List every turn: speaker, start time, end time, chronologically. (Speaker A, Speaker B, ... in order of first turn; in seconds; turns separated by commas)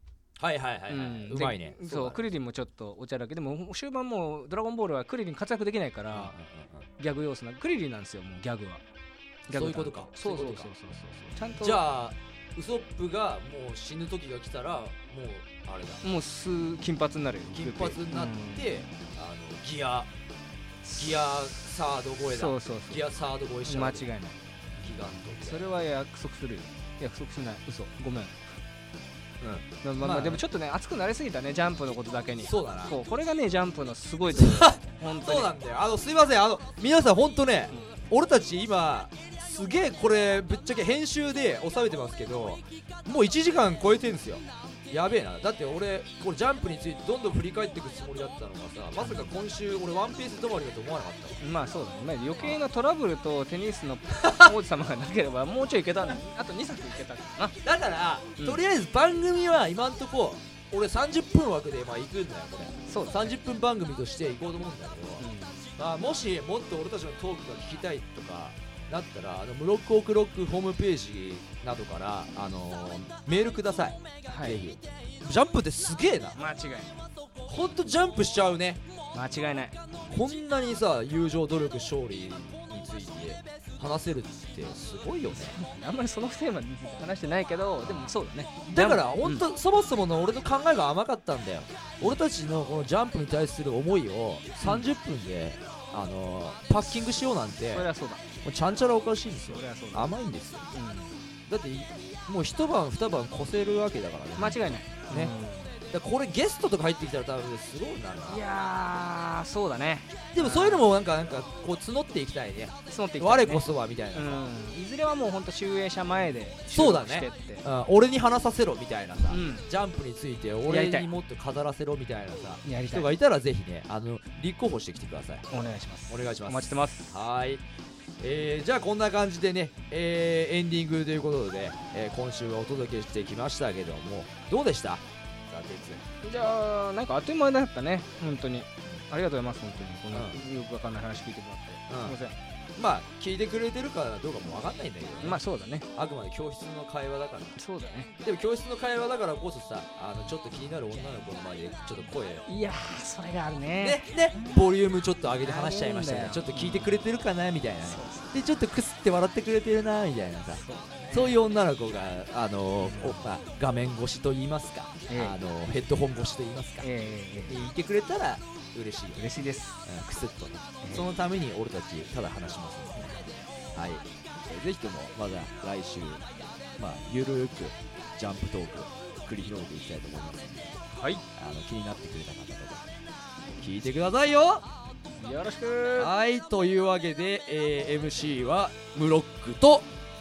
Speaker A: 0.4-2.2, Speaker B: 0.9-6.3, Speaker A: 6.1-6.9, Speaker B: 7.0-8.8, Speaker B: 9.5-11.8, Speaker A: 9.5-10.7, Speaker A: 11.6-16.0, Speaker B: 16.0-18.8, Speaker A: 17.5-20.1, Speaker B: 20.8-21.3, Speaker A: 20.9-24.1, Speaker B: 22.3-23.1, Speaker B: 23.6-24.5, Speaker A: 24.8-25.6, Speaker B: 25.4-28.4, Speaker A: 29.4-30.4, Speaker B: 29.8-35.5, Speaker A: 32.4-33.0, Speaker A: 34.3-51.4, Speaker B: 37.7-38.0, Speaker B: 49.0-49.3, Speaker B: 51.4-57.6, Speaker A: 54.2-54.5, Speaker A: 57.6-76.4, Speaker B: 62.9-63.2, Speaker B: 65.2-65.6, Speaker B: 74.2-74.6, Speaker B: 76.3-77.0, Speaker A: 77.4-78.8, Speaker B: 79.1-79.8, Speaker A: 80.1-85.6, Speaker B: 85.3-89.4, Speaker A: 87.8-97.9, Speaker B: 94.6-94.9, Speaker B: 97.7-98.2, Speaker A: 98.4-100.7, Speaker B: 99.4-100.2, Speaker B: 100.7-101.2, Speaker A: 101.5-105.3, Speaker B: 104.4-105.8, Speaker A: 105.9-108.4, Speaker B: 108.3-110.9, Speaker A: 110.3-114.5, Speaker B: 112.9-117.6, Speaker A: 116.7-125.5, Speaker B: 119.3-119.7, Speaker B: 120.6-121.1, Speaker B: 122.6-123.1, Speaker B: 125.5-127.1, Speaker A: 126.1-127.6, Speaker A: 128.2-136.5, Speaker B: 136.2-142.4, Speaker A: 140.1-140.4, Speaker A: 141.9-142.2, Speaker A: 142.8-145.4, Speaker B: 145.2-145.9, Speaker A: 145.9-147.6, Speaker B: 147.6-148.1, Speaker A: 148.2-152.5, Speaker B: 152.4-154.4, Speaker A: 153.8-166.9, Speaker B: 155.4-157.1, Speaker B: 157.8-158.4, Speaker B: 160.5-161.4, Speaker B: 162.8-163.3, Speaker B: 165.1-165.4, Speaker B: 166.8-167.6, Speaker A: 167.5-169.2, Speaker B: 169.2-169.8, Speaker A: 169.8-173.1, Speaker B: 170.8-171.1, Speaker B: 173.0-173.3, Speaker A: 173.7-176.2, Speaker A: 176.8-180.8, Speaker B: 180.9-181.2, Speaker A: 181.3-182.8, Speaker A: 183.6-184.7, Speaker B: 185.1-186.1, Speaker A: 186.0-189.9